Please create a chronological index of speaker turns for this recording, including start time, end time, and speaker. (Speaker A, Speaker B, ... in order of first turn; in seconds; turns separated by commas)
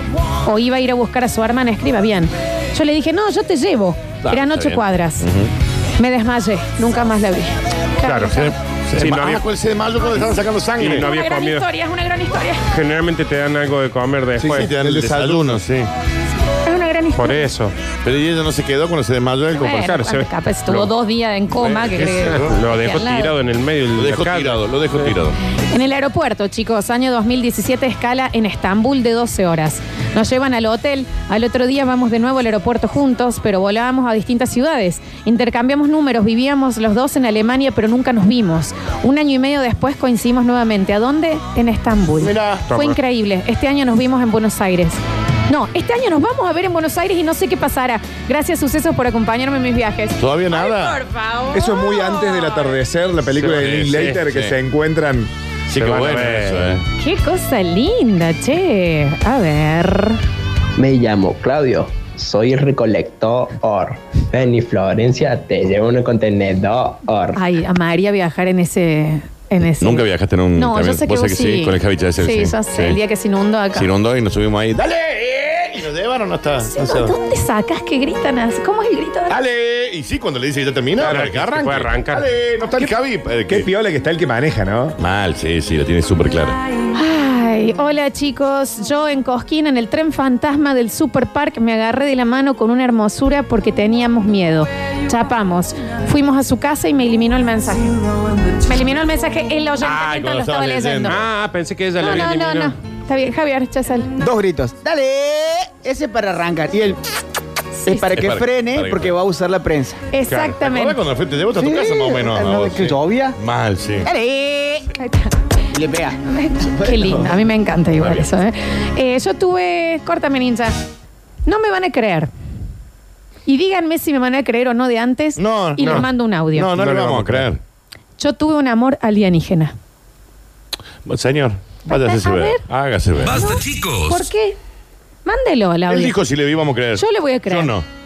Speaker A: 0.4-5.2, Speaker B: 4.2-5.5, Speaker A: 6.0-8.4, Speaker C: 8.0-9.4, Speaker B: 8.2-11.1, Speaker C: 10.8-11.7, Speaker A: 10.8-12.7, Speaker C: 12.7-14.7, Speaker D: 14.4-15.6, Speaker B: 14.4-15.9, Speaker A: 16.6-17.4, Speaker C: 17.2-17.7, Speaker B: 18.0-19.9, Speaker A: 19.6-23.3, Speaker C: 19.8-20.9, Speaker B: 21.5-22.6, Speaker C: 22.2-25.1, Speaker B: 23.9-25.4, Speaker A: 25.7-52.6, Speaker B: 42.2-42.6, Speaker C: 42.7-43.0, Speaker B: 50.2-51.0, Speaker D: 51.5-55.3, Speaker B: 53.4-54.5, Speaker C: 53.8-54.2, Speaker B: 55.7-56.8, Speaker C: 55.7-56.8, Speaker A: 57.0-60.2, Speaker E: 60.8-67.4, Speaker A: 67.3-73.9, Speaker B: 69.8-73.0, Speaker B: 73.7-77.1, Speaker A: 76.6-79.3, Speaker B: 79.3-83.7, Speaker D: 81.0-81.3, Speaker C: 81.0-82.3, Speaker D: 82.6-82.9, Speaker D: 83.5-85.0, Speaker B: 85.0-86.6, Speaker A: 86.9-98.0, Speaker A: 98.6-101.2, Speaker C: 99.8-100.2, Speaker B: 100.0-101.2, Speaker C: 101.0-102.7, Speaker A: 102.0-104.2, Speaker F: 104.2-107.0, Speaker A: 107.8-108.2, Speaker F: 107.8-110.0, Speaker B: 108.1-109.2, Speaker A: 110.1-111.0, Speaker C: 110.3-110.5, Speaker B: 110.6-114.1, Speaker F: 111.6-113.4, Speaker F: 114.0-114.9, Speaker A: 115.0-115.3, Speaker F: 115.7-116.2, Speaker A: 116.2-120.7, Speaker F: 116.8-117.1, Speaker B: 118.0-118.2, Speaker A: 121.5-122.3, Speaker A: 123.5-126.7, Speaker B: 125.4-127.6, Speaker C: 125.8-126.1, Speaker C: 126.7-127.5, Speaker A: 128.2-129.7, Speaker B: 131.0-133.8, Speaker A: 131.8-132.6, Speaker A: 133.2-134.6, Speaker A: 135.2-136.1, Speaker B: 135.9-137.8, Speaker A: 136.9-137.7